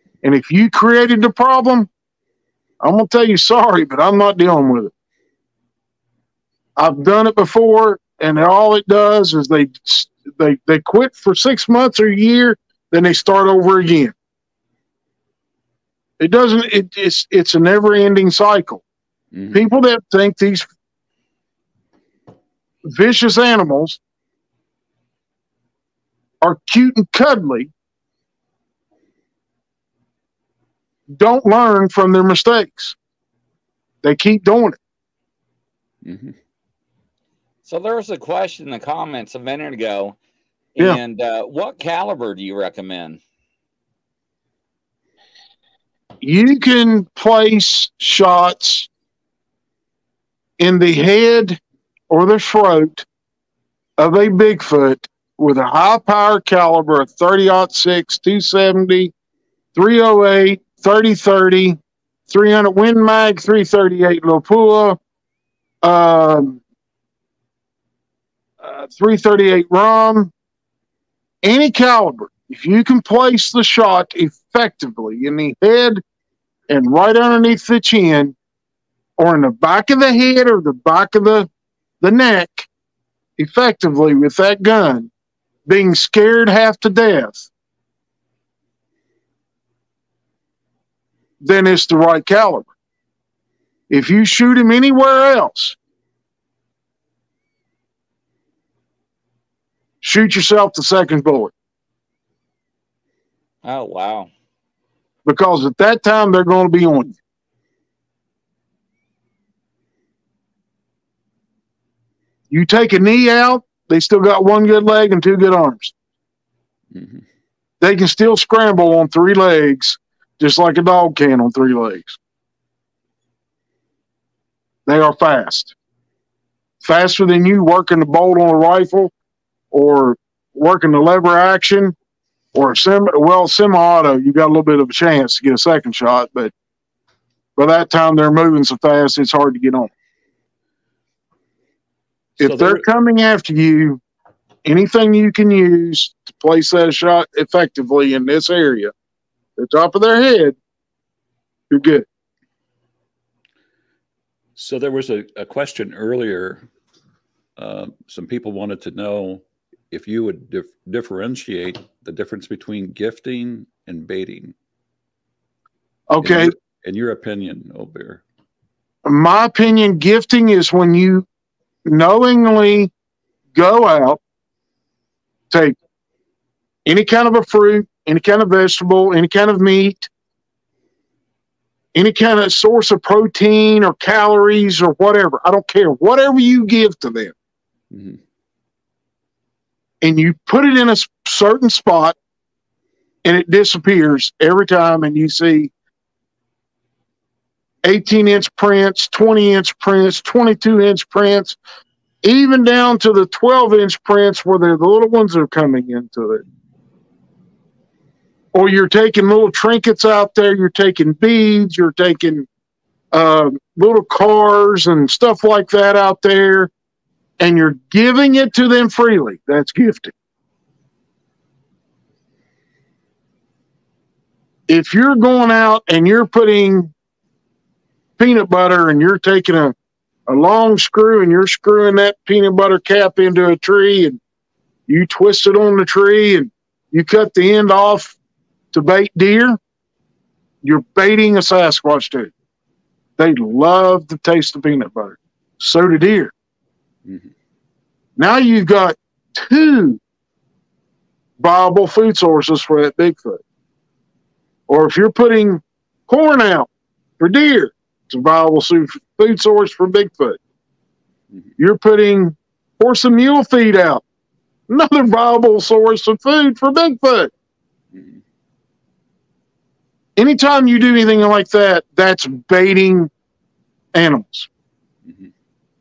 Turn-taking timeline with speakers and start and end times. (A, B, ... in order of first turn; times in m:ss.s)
0:00.2-0:01.9 A
0:02.8-0:04.9 A
0:06.8-0:14.1 A
0:16.2-0:18.8 A
0:19.3-0:19.7 B
0:19.5-0:20.7 A
0:22.8-0:24.0 A
0:26.4-0:27.7 A
0:31.1-0:33.0 A
0:34.0-0:34.8 A
0:36.0-0:36.4 B
0:37.6-0:40.2 C
0:40.8-0:43.2 C
0:46.2-0:48.9 A
0:50.6-0:51.6 A
0:52.1-0:53.0 A
0:54.0-0:59.1 A
0:59.7-1:05.0 A
1:05.8-1:06.6 A
1:08.6-1:10.3 A
1:11.4-1:16.0 A
1:16.7-1:18.3 A
1:19.2-1:21.5 A
1:22.0-1:22.7 A
1:23.4-1:25.1 A
1:25.6-1:27.5 A
1:31.4-1:32.7 A
1:33.9-1:35.8 A
1:40.0-1:41.5 A
1:43.6-1:44.3 C
1:45.2-1:47.2 A
1:52.5-1:55.9 A
1:56.9-1:57.2 B
1:57.8-2:02.2 A
2:04.8-2:05.7 A
2:06.8-2:09.1 A
2:09.7-2:11.9 A
2:12.5-2:16.5 A
2:17.6-2:19.9 A
2:22.4-2:22.8 B
2:22.4-2:24.0 A
2:24.6-2:28.9 A
2:29.6-2:30.5 A
2:31.7-2:32.0 A
2:34.6-2:36.7 B
2:37.6-2:44.5 B
2:46.1-2:46.5 A
2:46.2-2:48.2 B
2:49.0-2:51.2 A
2:51.8-2:52.9 A
2:53.5-2:54.2 A
2:56.8-3:00.1 A
3:01.9-3:07.3 A
3:07.9-3:08.2 B
3:10.0-3:12.2 A
3:13.2-3:15.7 A
3:17.8-3:21.6 A
3:22.2-3:26.4 A
3:28.5-3:32.5 A
3:33.1-3:36.7 A
3:37.4-3:40.1 A
3:44.7-3:46.9 A
3:48.2-3:49.7 A
3:50.3-3:54.2 A
3:54.9-3:58.2 A
3:58.7-3:59.6 A
4:00.6-4:02.3 A
4:03.2-4:06.3 A
4:07.0-4:07.3 B
4:08.2-4:10.0 A
4:11.4-4:13.4 A
4:14.7-4:16.7 A
4:17.2-4:20.4 A
4:21.6-4:24.0 A
4:24.7-4:27.3 A
4:27.9-4:28.2 B
4:30.2-4:33.1 A
4:33.9-4:34.5 A
4:35.0-4:35.3 B